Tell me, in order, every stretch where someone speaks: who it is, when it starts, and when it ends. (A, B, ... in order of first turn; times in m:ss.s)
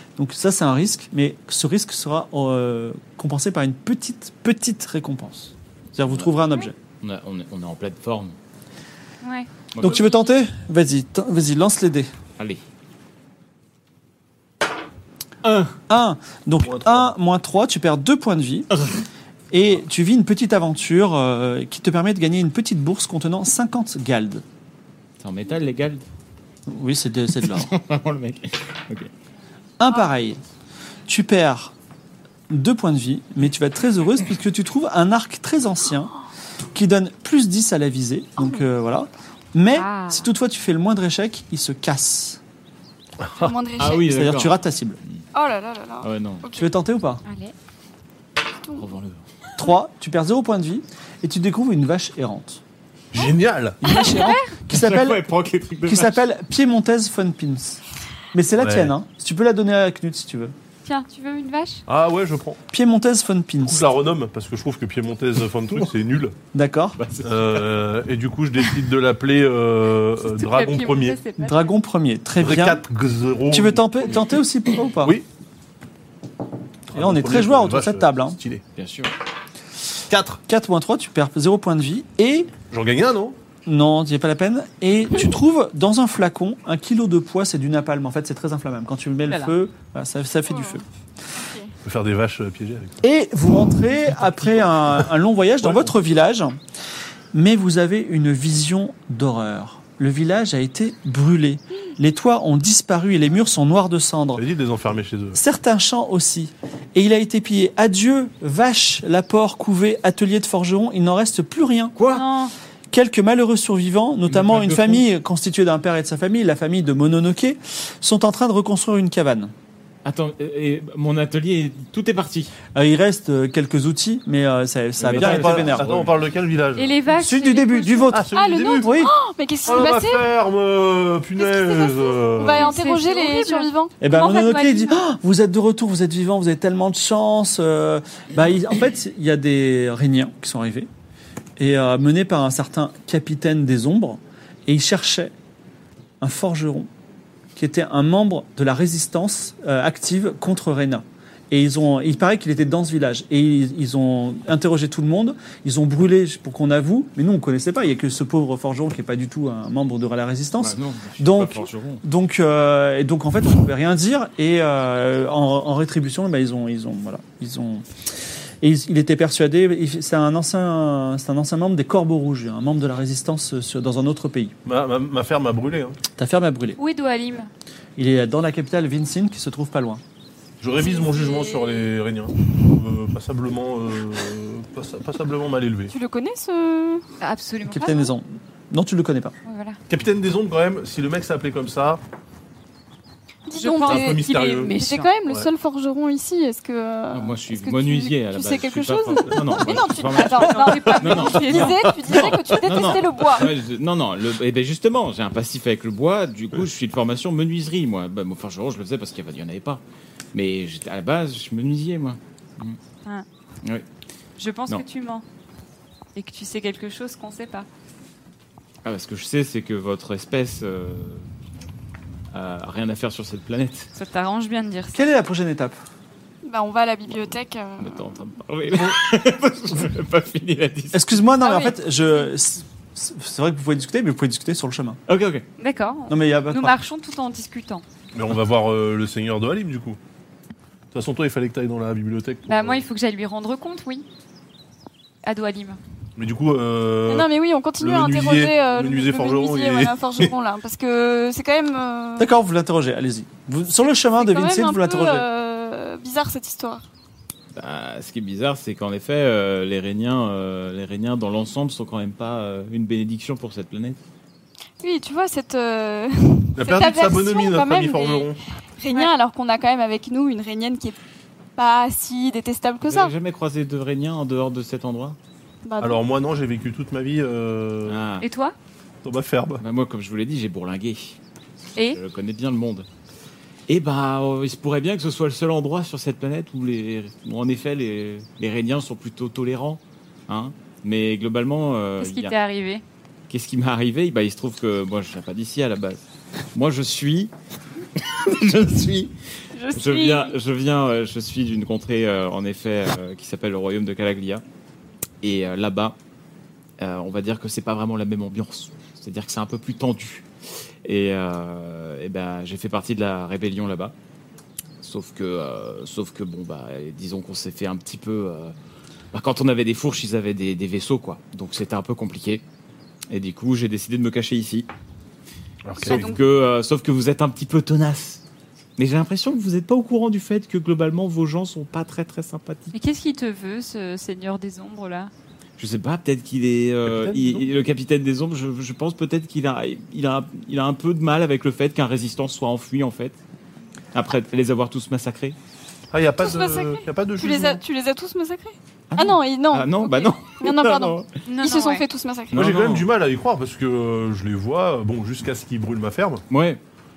0:00.2-0:06.8 A
0:06.0-0:06.3 B
0:07.0-0:08.4 B
0:09.2-0:09.5 C
0:09.7-0:10.1 B
0:09.8-0:12.1 A
0:15.4-0:15.8 B
0:15.9-0:18.7 A
0:16.6-0:17.1 D
0:18.8-0:19.0 B
0:19.5-0:24.4 A
0:25.2-0:26.0 B
0:26.7-0:27.7 A
0:27.4-0:29.1 B
0:29.8-0:30.4 A
0:31.1-0:31.7 A
0:32.5-0:36.1 A
0:36.7-0:42.4 A
0:39.7-0:40.3 C
0:43.2-0:43.5 D
0:43.4-0:44.2 E
0:43.8-0:44.6 B
0:44.1-0:45.0 A
0:45.3-0:46.7 E
0:46.0-0:46.4 B
0:46.6-0:47.2 A
0:47.2-0:47.5 C
0:48.8-0:49.2 B
0:49.6-0:52.6 A
0:53.1-0:53.8 D
0:53.8-0:55.2 A
0:54.0-0:54.5 C
0:54.7-0:56.2 B
0:55.9-0:57.8 A
0:58.3-1:00.5 A
0:58.6-0:58.9 D
1:00.8-1:01.8 C
1:01.9-1:02.6 D
1:02.7-1:03.9 A
1:03.6-1:06.4 D
1:06.5-1:07.0 A
1:07.0-1:07.7 B
1:07.2-1:11.2 D
1:10.2-1:11.7 C
1:11.4-1:12.8 A
1:12.4-1:13.8 D
1:13.5-1:15.2 A
1:16.9-1:18.6 D
1:16.9-1:18.4 A
1:18.8-1:19.1 B
1:20.1-1:20.4 D
1:20.5-1:22.5 A
1:22.7-1:23.4 D
1:23.7-1:30.8 A
1:30.5-1:30.8 E
1:31.4-1:31.7 E
1:31.8-1:33.0 D
1:33.0-1:36.6 A
1:35.6-1:35.9 D
1:37.3-1:44.4 A
1:44.4-1:45.4 D
1:45.3-1:52.0 A
1:52.0-1:52.2 B
1:52.1-1:52.5 C
1:52.9-1:59.5 A
1:54.3-1:55.0 B
2:00.0-2:02.5 B
2:02.7-2:05.9 A
2:05.0-2:06.1 B
2:05.0-2:07.0 D
2:06.8-2:08.2 C
2:07.1-2:08.3 A
2:08.1-2:08.9 D
2:08.3-2:10.3 E
2:08.8-2:09.1 A
2:09.6-2:12.7 D
2:11.4-2:14.0 E
2:12.5-2:15.0 C
2:14.0-2:20.9 A
2:21.6-2:25.3 A
2:26.2-2:26.9 A
2:27.6-2:47.9 A
2:40.6-2:42.0 B
2:48.6-2:54.5 A
2:54.6-2:56.0 D
2:56.2-2:56.8 A
2:56.8-2:57.5 C
2:58.0-3:00.0 A
3:00.6-3:06.0 D
3:00.8-3:01.9 E
3:05.9-3:07.0 E
3:07.2-3:08.1 C
3:07.7-3:09.4 A
3:09.4-3:09.8 C
3:09.9-3:12.0 D
3:13.5-3:23.6 E
3:13.6-3:15.1 C
3:13.8-3:15.5 D
3:17.1-3:29.8 B
3:20.4-3:21.9 C
3:30.3-3:32.8 B
3:34.4-3:35.2 C
3:36.1-3:37.7 C
3:38.8-3:41.3 B
3:42.3-3:43.9 B
3:44.0-3:45.1 C
3:44.9-3:45.8 A
3:46.4-3:48.2 E
3:47.8-3:51.2 B
3:50.9-3:55.0 A
3:51.4-3:51.7 E
3:55.1-3:55.4 B
3:55.6-3:57.8 C
3:56.1-3:56.7 A
3:58.1-4:00.0 D
4:00.9-4:02.8 D
4:02.5-4:04.1 C
4:05.2-4:05.8 C
4:06.2-4:10.3 D
4:07.1-4:12.3 E
4:12.2-4:15.3 A
4:14.2-4:16.8 E
4:17.6-4:24.0 B
4:24.8-4:31.0 E
4:26.6-4:28.4 D
4:31.6-4:33.1 E
4:32.8-4:35.2 B
4:35.6-4:36.0 E
4:35.8-4:38.0 D
4:37.8-4:38.2 B
4:38.2-4:38.5 C
4:39.0-4:39.6 D
4:39.6-4:41.2 B
4:41.9-4:42.9 B
4:43.7-4:52.3 B
4:52.0-4:52.8 C
4:53.3-4:56.0 B
4:56.5-4:57.3 B
4:58.0-4:59.1 B
4:59.6-5:00.3 C
4:59.8-5:04.4 B
5:05.2-5:06.0 B
5:06.8-5:10.2 B
5:10.8-5:13.9 B
5:14.8-5:18.5 B
5:19.1-5:22.4 B
5:23.1-5:24.7 B
5:25.6-5:26.0 D
5:25.8-5:26.2 C
5:25.8-5:28.2 B
5:28.8-5:32.7 B
5:32.7-5:35.1 C
5:35.6-5:43.2 B
5:36.8-5:37.5 D
5:43.9-5:45.4 B
5:45.9-5:47.6 D
5:46.2-5:52.4 E
5:48.9-5:51.1 B
5:51.3-5:51.9 C
5:52.3-5:52.9 B
5:52.4-5:56.2 D
5:56.3-5:56.6 B